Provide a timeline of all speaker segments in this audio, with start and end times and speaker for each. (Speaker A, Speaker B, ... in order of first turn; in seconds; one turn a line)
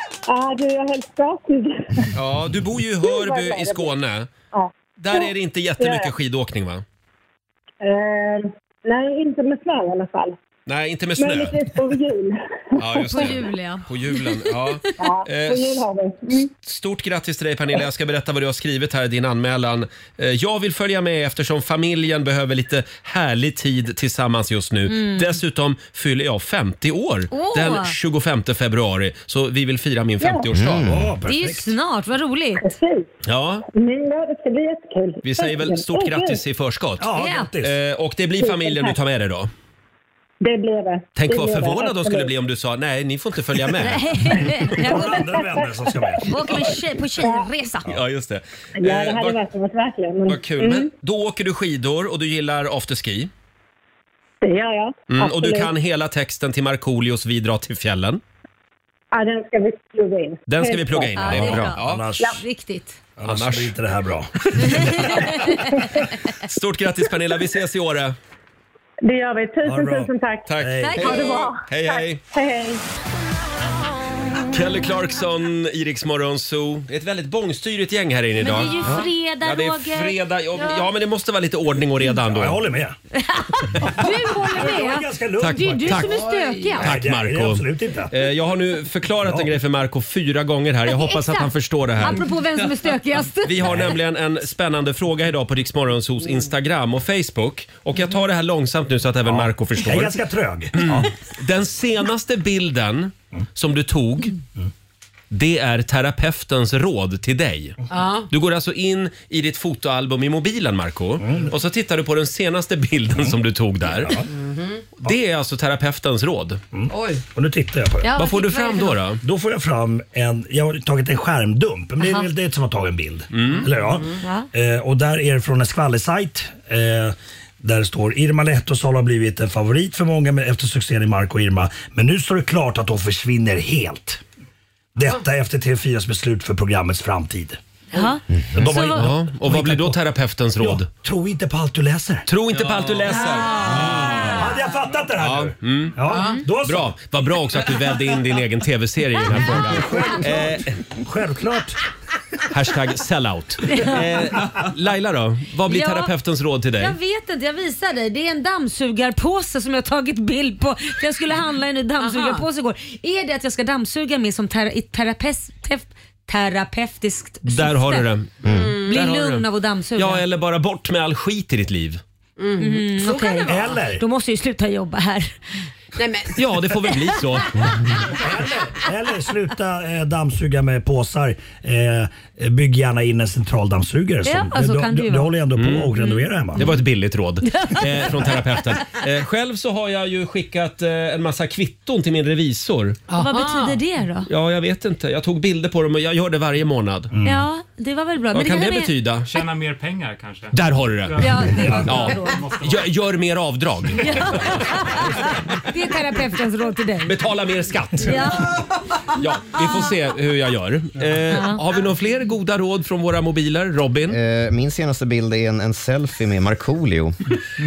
Speaker A: 0.3-2.1
Speaker B: 2.1-4.3
Speaker A: 3.0-3.9
Speaker A: 4.5-6.1
Speaker B: 5.0-6.8
Speaker A: 7.8-10.4
Speaker B: 10.7-11.7
Speaker A: 11.2-13.2
Speaker B: 12.8-15.8
Speaker C: 13.0-14.5
Speaker A: 15.0-16.5
Speaker B: 16.6-30.8
Speaker C: 24.9-25.3
Speaker C: 27.3-27.9
Speaker A: 30.2-30.5
Speaker D: 30.5-31.1
Speaker E: 30.8-31.7
Speaker C: 31.3-32.7
Speaker A: 32.6-33.1
Speaker B: 33.2-33.6
Speaker A: 33.7-36.4
Speaker B: 35.2-37.1
Speaker E: 37.0-37.7
Speaker C: 37.1-37.5
Speaker B: 37.6-39.5
Speaker A: 38.4-39.0
Speaker A: 40.4-42.3
Speaker B: 41.1-44.3
Speaker C: 43.8-45.2
Speaker E: 44.7-46.3
Speaker A: 44.8-46.6
Speaker C: 46.3-47.9
Speaker A: 47.2-47.4
Speaker B: 47.9-49.4
Speaker A: 48.8-50.9
Speaker B: 50.3-53.3
Speaker A: 54.4-55.7
Speaker B: 55.1-58.2
Speaker A: 59.1-61.2
Speaker B: 60.5-62.1
Speaker C: 61.2-63.0
Speaker E: 61.3-62.4
Speaker D: 61.4-61.7
Speaker E: 63.2-65.2
Speaker B: 63.3-63.7
Speaker C: 64.6-65.8
Speaker B: 66.4-68.2
Speaker A: 69.0-70.5
Speaker E: 69.6-71.3
Speaker B: 70.5-72.2
Speaker C: 70.8-71.5
Speaker A: 71.0-72.8
Speaker B: 74.5-82.6
Speaker C: 78.4-80.2
Speaker E: 82.2-82.9
Speaker C: 83.1-86.9
Speaker E: 83.8-86.2
Speaker B: 85.4-86.2
Speaker F: 86.3-86.8
Speaker E: 86.8-88.1
Speaker B: 86.8-92.3
Speaker E: 89.2-89.5
Speaker C: 90.9-91.5
Speaker C: 92.0-93.8
Speaker B: 93.4-100.2
Speaker E: 93.6-93.9
Speaker E: 99.2-101.1
Speaker B: 100.7-104.3
Speaker B: 105.3-114.2
Speaker F: 107.9-108.3
Speaker E: 111.2-111.5
Speaker E: 114.0-114.3
Speaker F: 114.3-114.8
Speaker B: 115.0-116.6
Speaker E: 116.7-118.1
Speaker F: 116.9-117.2
Speaker C: 118.0-119.0
Speaker B: 118.2-119.2
Speaker E: 119.2-134.2
Speaker B: 123.3-123.7
Speaker C: 124.2-124.5
Speaker E: 134.9-137.6
Speaker C: 137.9-139.1
Speaker E: 138.5-140.0
Speaker B: 138.6-140.9
Speaker E: 140.6-142.3
Speaker B: 142.3-144.5
Speaker C: 143.2-144.4
Speaker E: 143.6-147.0
Speaker B: 145.2-146.0
Speaker F: 146.1-146.4
Speaker B: 146.6-150.8
Speaker E: 149.3-151.8
Speaker B: 152.5-156.9
Speaker C: 153.7-154.0
Speaker C: 155.7-156.1
Speaker C: 156.7-168.1
Speaker F: 162.0-162.4
Speaker B: 167.4-172.0
Speaker D: 168.4-168.7
Speaker F: 168.6-168.9
Speaker C: 168.8-170.2
Speaker F: 172.4-173.8
Speaker C: 172.6-175.3
Speaker E: 173.4-174.0
Speaker F: 175.9-176.4
Speaker B: 176.3-177.6
Speaker E: 177.6-186.7
Speaker C: 184.2-185.3
Speaker B: 185.6-185.9
Speaker C: 186.0-186.8
Speaker B: 186.6-193.0
Speaker C: 187.4-188.4
Speaker F: 193.1-193.8
Speaker C: 193.1-194.3
Speaker B: 194.3-197.1
Speaker E: 197.1-197.4
Speaker C: 197.2-198.9
Speaker B: 198.3-199.4
Speaker G: 199.2-202.9
Speaker B: 200.5-204.6
Speaker C: 201.2-202.4
Speaker C: 204.0-207.1
Speaker B: 207.0-208.6
Speaker C: 208.0-208.5
Speaker B: 209.1-214.2
Speaker C: 211.3-211.6
Speaker D: 214.1-217.2